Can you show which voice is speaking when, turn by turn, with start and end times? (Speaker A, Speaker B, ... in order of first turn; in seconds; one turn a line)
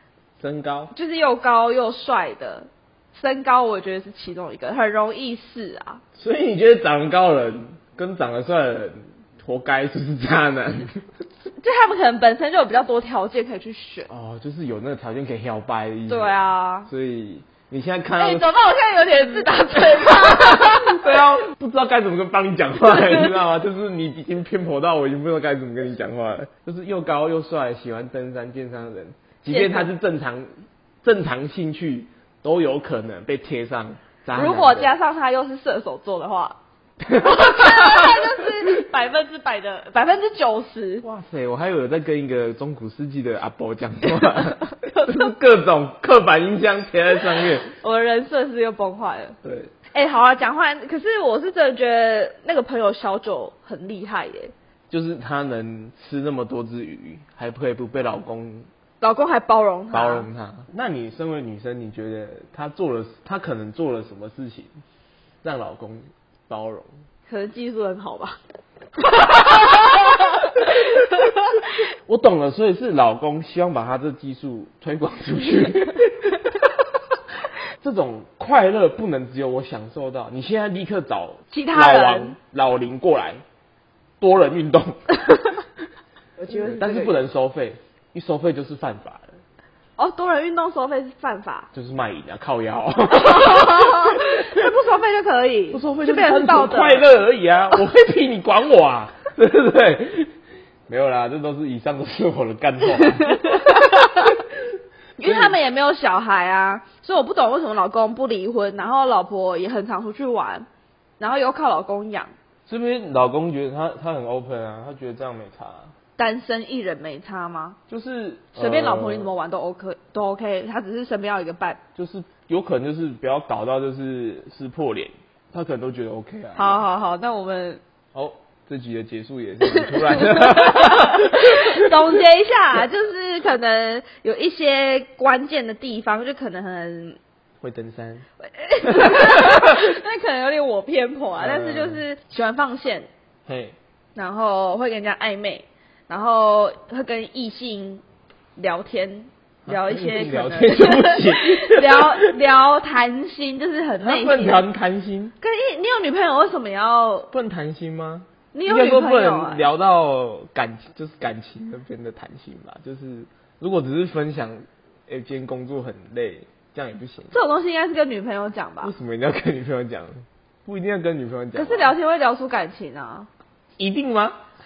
Speaker A: 0.4-0.9
Speaker B: 0.9-6.0
Speaker A: 6.2-10.9
Speaker B: 11.6-14.1
Speaker A: 14.1-16.4
Speaker B: 16.1-16.9
Speaker A: 16.9-18.5
Speaker B: 18.2-21.0
Speaker A: 19.8-30.5
Speaker B: 29.5-29.9
Speaker A: 31.0-34.9
Speaker B: 34.4-36.6
Speaker A: 37.0-38.4
Speaker B: 37.2-41.0
Speaker A: 41.0-47.7
Speaker B: 44.7-45.2
Speaker B: 47.7-49.4
Speaker A: 49.4-49.7
Speaker B: 49.9-54.5
Speaker A: 54.9-58.7
Speaker B: 59.0-60.3
Speaker A: 59.9-64.7
Speaker A: 65.4-66.9
Speaker B: 67.3-68.4
Speaker B: 69.0-71.7
Speaker A: 72.1-76.4
Speaker A: 77.8-83.4
Speaker B: 81.5-82.3
Speaker A: 84.2-85.6
Speaker B: 86.4-87.1
Speaker A: 86.5-89.4
Speaker B: 90.0-91.7
Speaker A: 91.7-94.7
Speaker B: 93.1-97.1
Speaker A: 95.7-100.3
Speaker A: 100.9-104.4
Speaker B: 103.0-104.4
Speaker B: 105.2-110.7
Speaker A: 105.2-105.6
Speaker B: 111.2-112.3
Speaker A: 112.7-115.9
Speaker B: 116.2-117.8
Speaker A: 117.9-119.3
Speaker B: 118.5-121.8
Speaker A: 122.0-126.8
Speaker B: 126.5-127.8
Speaker A: 128.1-132.0
Speaker B: 129.7-137.2
Speaker A: 137.6-138.2
Speaker B: 138.4-143.1
Speaker A: 138.8-139.7
Speaker A: 141.4-142.0
Speaker A: 143.5-143.8
Speaker B: 144.2-148.0
Speaker B: 148.6-154.6
Speaker A: 149.7-152.3
Speaker A: 154.0-155.3
Speaker B: 155.4-157.3
Speaker A: 157.3-167.3
Speaker B: 158.5-159.7
Speaker B: 167.3-168.9
Speaker A: 168.8-171.9
Speaker B: 171.6-173.3
Speaker A: 173.8-174.4